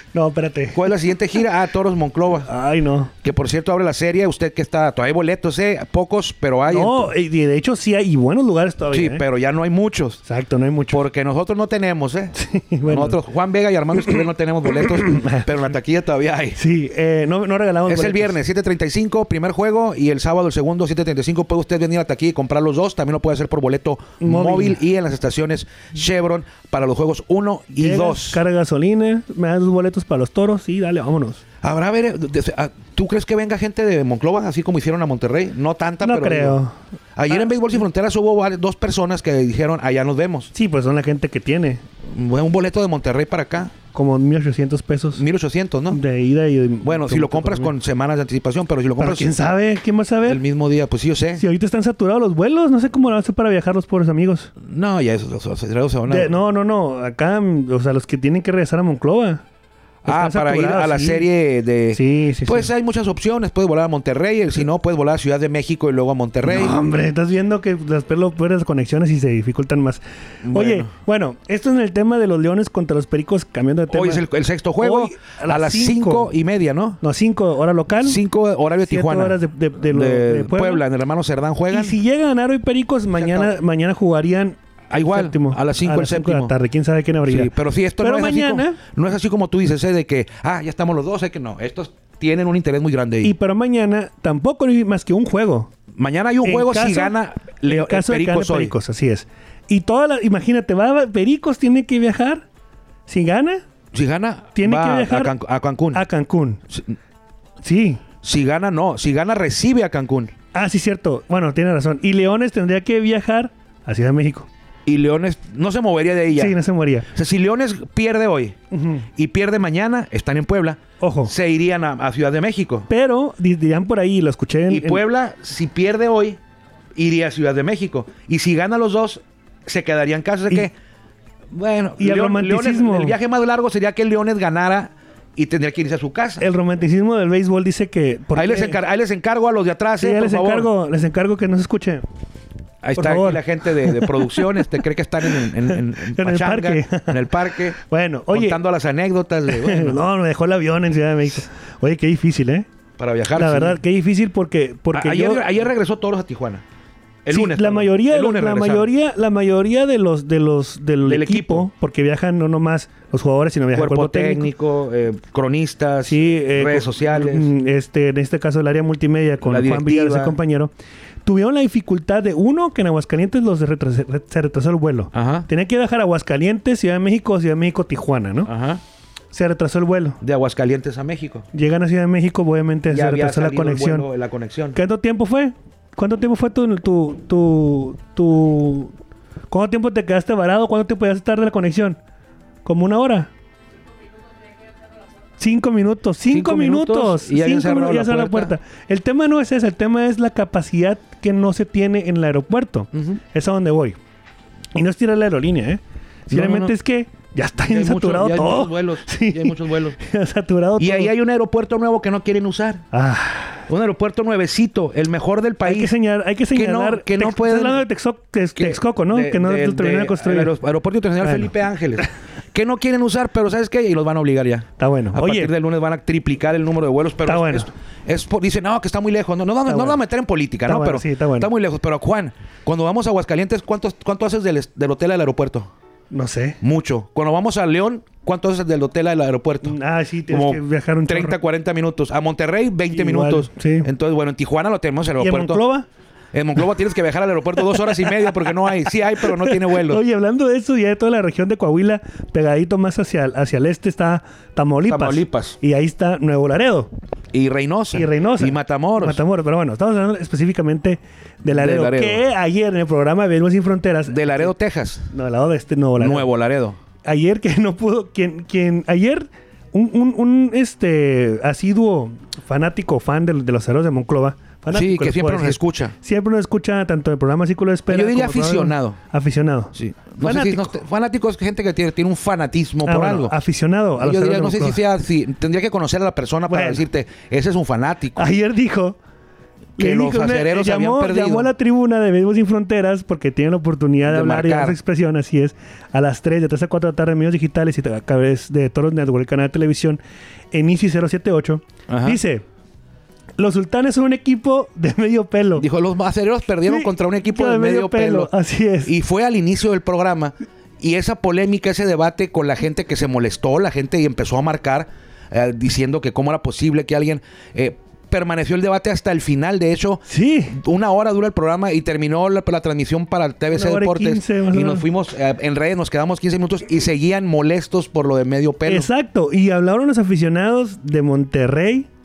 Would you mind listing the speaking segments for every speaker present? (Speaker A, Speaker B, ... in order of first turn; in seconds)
Speaker A: 0.1-0.8, 2.5-3.1, 6.7-9.2, 10.2-11.0, 12.3-13.2, 14.8-15.5, 16.6-18.4, 24.2-24.8, 27.8-31.4, 36.0-36.8, 40.5-41.8, 43.9-45.2, 45.9-47.7, 49.0-50.4, 51.4-54.5, 56.1-59.4, 60.0-61.3, 61.9-62.7, 66.4-74.2, 74.8-76.3, 77.0-78.2, 78.8-80.8, 81.7-88.8, 93.2-95.7, 96.4-102.5, 103.1-103.6, 104.5-105.3, 105.9-106.6, 107.6-108.0, 110.5-114.5, 116.3-117.1, 118.7-119.0, 121.0-121.3, 122.9-125.0, 132.0-133.2, 136.4-138.8, 140.0-142.0, 142.9-144.7, 145.3-147.2, 147.8-148.6, 149.5-152.7, 153.3-155.5, 157.3-164.5, 166.0-170.7, 171.2-178.5, 179.3-180.2, 181.5-184.1, 184.7-188.9, 189.5-192.0, 192.6-193.3, 195.4-204.0, 204.7-211.1, 212.9-213.6, 215.6-220.5, 221.2-221.5, 224.8-225.5, 227.2-227.7, 229.7-230.0, 230.7-231.5, 236.1-236.6, 239.6-241.4, 242.9-243.9, 245.2-245.9, 249.2-256.9, 257.9-264.5, 265.1-266.3, 267.0-280.7, 282.8-284.8, 286.5-286.8, 288.1-289.0, 289.8-300.0, 300.5-302.4, 303.4-305.6, 306.6-308.9, 320.1-320.6, 323.5-324.9, 328.6-331.9
Speaker B: 0.7-2.5, 3.2-7.1, 8.9-10.2, 10.9-12.3, 12.9-16.6, 17.9-28.4, 31.6-36.6, 37.1-40.5, 42.1-43.7, 45.2-46.0, 46.8-49.3, 50.2-51.4, 54.6-56.3, 60.0-66.8, 70.4-70.9, 73.9-77.0, 78.0-82.0, 83.2-83.5, 84.9-86.5, 87.3-93.3, 95.9-98.7, 103.9-106.0, 108.2-110.3, 114.8-116.6, 117.1-118.5, 119.1-122.9, 124.7-126.4, 126.9-130.7, 131.5-136.4, 138.3-140.7, 142.8-147.8, 148.3-150.0, 153.0-153.8, 154.9-156.6, 157.2-158.9, 161.0-161.7, 163.7-167.5, 169.4-170.3, 175.1-175.5, 178.4-178.8, 180.2-181.4, 182.9-184.8, 196.3-198.5, 202.9-203.2, 206.3-206.7, 207.7-210.0, 210.8-212.8, 213.7-215.9, 216.5-217.8, 218.6-235.7, 236.6-239.8, 240.3-245.6, 246.3-250.0, 254.8-255.6, 257.3-259.2, 261.5-262.2, 264.1-265.1, 266.0-266.8, 274.7-275.9, 277.9-279.0, 279.7-283.3, 284.0-288.3, 289.8-291.5, 294.0-294.8, 301.9-302.2, 305.6-308.3, 308.8-328.9